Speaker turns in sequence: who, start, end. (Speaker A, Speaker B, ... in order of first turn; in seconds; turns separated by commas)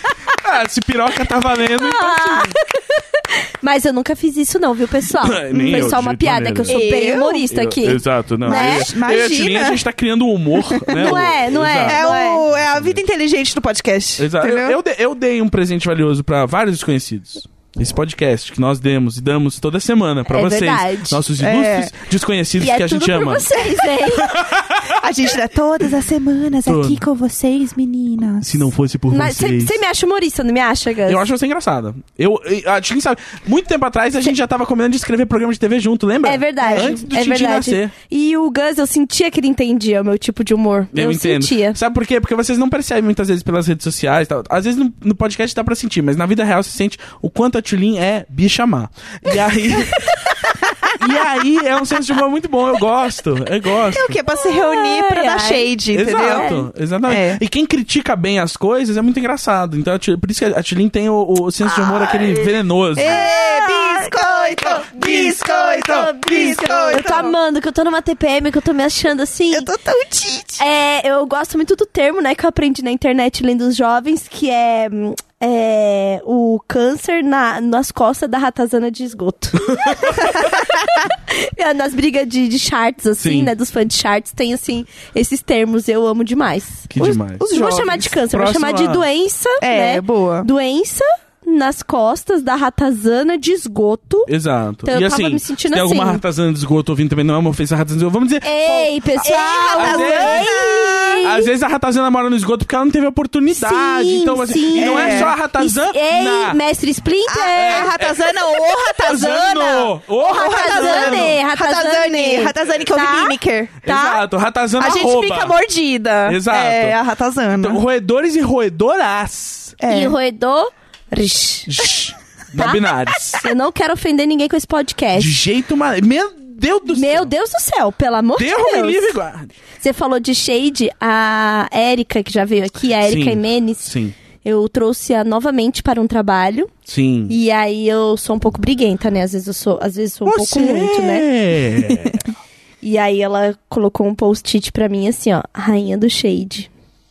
Speaker A: 0.3-2.6, Speaker B: 1.8-8.9, Speaker A: 5.2-6.8, Speaker C: 6.7-7.4, Speaker A: 7.5-13.0, Speaker C: 8.4-9.8, Speaker C: 10.6-14.8, Speaker B: 10.9-12.4, Speaker A: 14.2-25.0, Speaker B: 20.3-21.2, Speaker C: 21.4-21.9, Speaker B: 22.6-24.4, Speaker C: 24.9-28.7, Speaker A: 26.6-27.0, Speaker A: 28.4-29.8, Speaker B: 29.1-31.3, Speaker A: 31.1-37.9, Speaker B: 36.2-41.8, Speaker C: 36.6-37.0, Speaker A: 40.9-50.2, Speaker B: 49.9-50.5, Speaker C: 50.6-50.9, Speaker A: 50.9-54.2, Speaker C: 53.9-56.5, Speaker B: 54.3-56.7, Speaker A: 55.9-63.3, Speaker C: 57.1-57.4, Speaker C: 63.0-67.3, Speaker B: 63.0-69.7, Speaker A: 64.9-66.7, Speaker C: 69.5-70.6, Speaker B: 70.6-94.3, Speaker A: 79.6-80.2, Speaker A: 83.2-83.5, Speaker A: 86.9-89.0, Speaker C: 89.6-90.5, Speaker A: 94.3-100.6, Speaker B: 94.8-96.2, Speaker B: 98.4-101.5, Speaker C: 99.2-101.3, Speaker A: 101.2-106.6, Speaker B: 103.5-107.9, Speaker C: 104.7-105.3, Speaker C: 107.3-113.9, Speaker A: 107.5-111.4, Speaker B: 110.2-114.2, Speaker A: 113.8-115.6, Speaker C: 114.8-117.8, Speaker A: 116.3-117.0, Speaker A: 117.6-119.8, Speaker C: 119.8-120.2, Speaker B: 119.9-121.8, Speaker A: 121.7-123.5, Speaker B: 122.5-125.4, Speaker A: 125.2-127.3, Speaker B: 126.9-129.2, Speaker A: 128.4-129.6, Speaker B: 129.8-133.9, Speaker A: 133.0-134.2, Speaker B: 134.4-136.7, Speaker A: 136.9-137.3, Speaker B: 137.3-141.3, Speaker A: 140.2-142.2, Speaker B: 142.8-146.7